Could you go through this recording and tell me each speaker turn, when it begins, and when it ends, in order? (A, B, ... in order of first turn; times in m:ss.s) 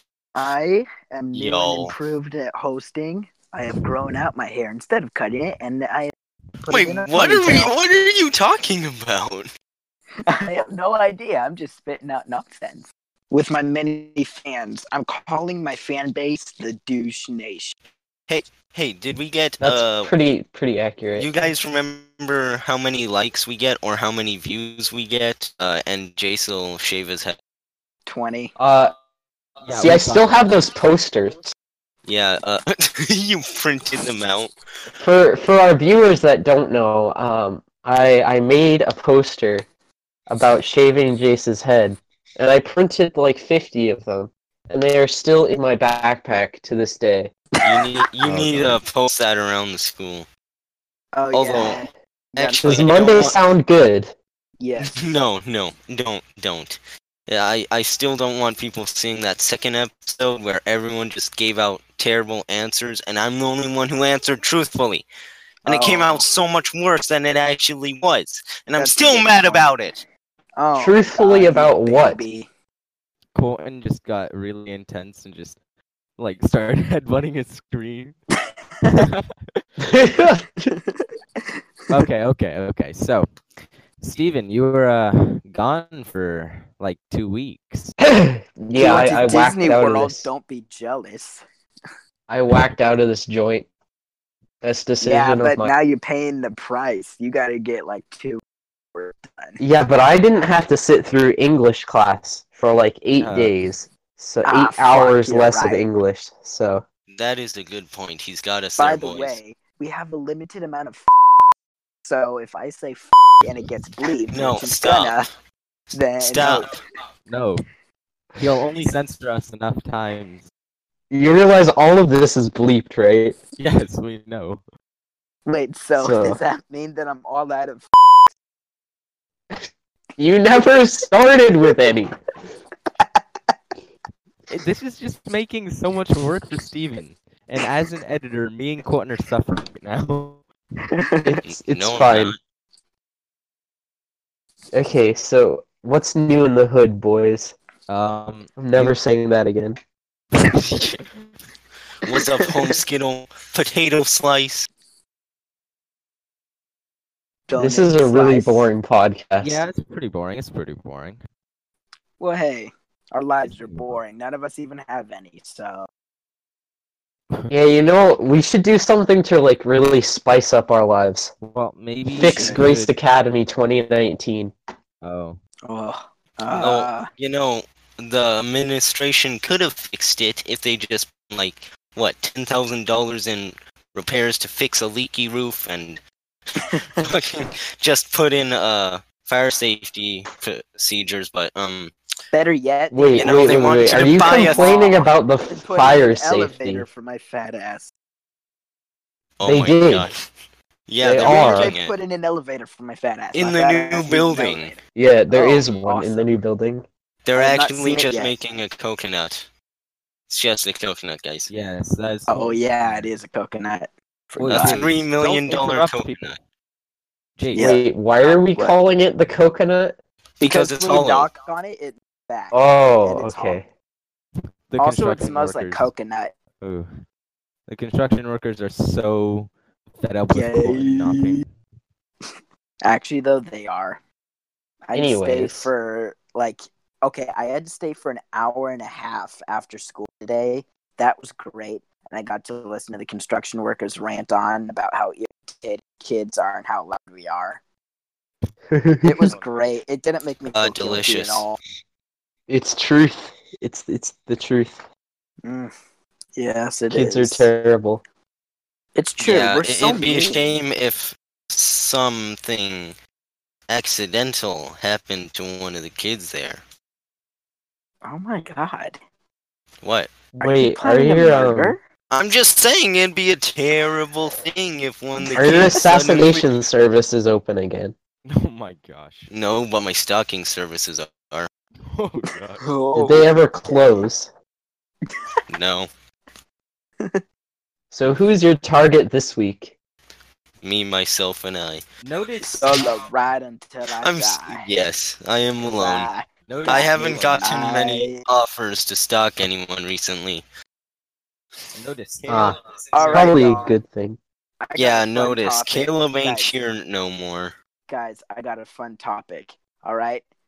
0:00.3-0:07.7 A
0:01.3-0:01.9 B
0:06.7-0:09.5 B
0:10.3-0:17.7 A
0:18.3-0:20.1 B
0:19.6-0:21.3 C
0:21.2-0:27.4 B
0:28.1-0:28.5 A
0:28.6-0:28.9 C
0:29.6-0:30.4 D
0:29.7-0:31.5 C
0:32.0-0:34.5 B
0:35.0-0:39.6 C
0:40.3-0:47.3 C
0:47.6-0:50.3 B
0:48.3-0:48.8 C
0:51.1-0:53.4 A
0:51.3-0:51.8 B
0:52.3-0:53.4 B
0:52.6-0:54.1 C
0:54.6-0:54.9 A
0:54.8-1:05.0 B
1:05.6-1:10.0 B
1:05.6-1:06.2 A
1:08.7-1:09.7 A
1:10.6-1:12.5 A
1:10.7-1:12.2 C
1:13.3-1:15.6 D
1:16.2-1:18.2 D
1:18.8-1:19.6 D
1:19.8-1:20.5 C
1:20.7-1:21.6 A
1:21.9-1:27.9 D
1:28.0-1:30.3 C
1:28.8-1:31.4 A
1:32.3-1:33.6 C
1:34.6-1:35.7 C
1:35.0-1:38.4 A
1:38.9-1:39.6 A
1:39.6-1:46.8 C
1:43.2-1:43.5 D
1:44.4-1:45.9 A
1:47.1-1:49.4 B
1:48.8-1:51.1 A
1:52.0-1:55.3 A
1:54.3-1:55.2 B
1:55.9-1:56.7 A
1:56.2-1:56.7 B
1:57.2-1:57.6 D
1:58.4-2:00.5 D
2:01.1-2:03.4 C
2:03.6-2:04.6 D
2:05.4-2:07.9 A
2:06.0-2:06.4 C
2:10.2-2:12.1 C
2:14.5-2:20.4 D
2:20.9-2:21.3 A
2:21.2-2:22.4 C
2:21.4-2:22.4 B
2:24.7-2:27.5 C
2:27.9-2:29.0 D
2:28.6-2:29.8 C
2:30.4-2:31.1 D
2:32.0-2:34.7 B
2:37.5-2:38.7 A
2:37.6-2:39.6 C
2:39.4-2:41.2 D
2:42.2-2:45.9 A
2:43.4-2:44.0 D
2:47.5-2:51.3 C
2:51.4-2:52.9 D
2:52.1-2:54.5 C
2:52.2-2:52.6 A
2:55.0-2:55.4 D
2:55.7-2:57.1 A
2:56.5-3:06.0 B
3:07.0-3:11.9 B
3:12.3-3:17.9 A
3:12.9-3:16.8 C
3:13.1-3:14.7 B
3:19.4-3:20.2 B
3:19.4-3:20.1 C
3:20.9-3:22.0 B
3:21.0-3:21.7 C
3:21.2-3:24.8 A
3:23.3-3:24.7 B
3:24.9-3:26.8 C
3:25.3-3:26.4 A
3:27.2-3:29.5 B
3:27.3-3:28.3 A
3:30.3-3:31.5 B
3:31.5-3:33.1 D
3:32.3-3:34.9 A
3:34.4-3:36.4 D
3:34.5-3:36.4 B
3:37.4-3:37.7 D
3:37.5-3:38.8 A
3:37.6-3:40.0 C
3:40.4-3:41.3 B
3:40.4-3:43.6 A
3:42.5-3:43.7 C
3:44.7-3:45.9 D
3:44.8-3:46.3 A
3:46.6-3:46.9 D
3:47.7-3:51.5 D
3:50.3-3:51.4 A
3:52.8-3:54.0 A
3:54.8-4:07.6 A
3:54.9-3:55.7 C
4:08.7-4:09.3 C
4:09.0-4:11.6 A
4:09.2-4:09.5 D
4:10.5-4:11.4 B
4:12.5-4:14.8 C
4:15.4-4:15.7 A
4:16.3-4:17.5 A
4:16.9-4:18.0 C
4:18.9-4:20.4 A
4:19.2-4:23.0 B
4:23.7-4:26.6 B
4:28.0-4:29.0 A
4:29.8-4:30.1 B
4:30.4-4:31.8 C
4:30.4-4:31.8 A
4:32.1-4:36.5 B
4:35.2-4:35.8 A
4:35.3-4:37.9 C
4:38.2-4:39.3 D
4:39.3-4:41.5 B
4:41.9-4:42.6 D
4:42.6-4:44.1 A
4:42.9-4:44.3 C
4:45.5-4:45.9 B
4:47.9-4:49.7 C
4:50.6-4:51.8 B
4:52.0-4:53.0 D
4:52.4-4:54.7 A
4:54.0-4:56.1 B
4:55.6-4:58.2 A
4:56.5-4:57.5 D
4:56.7-5:00.4 B
5:01.7-5:03.7 D
5:02.3-5:02.6 C
5:02.9-5:03.7 A
5:03.1-5:04.2 C
5:04.6-5:06.5 A
5:04.8-5:07.5 B
5:07.9-5:10.2 A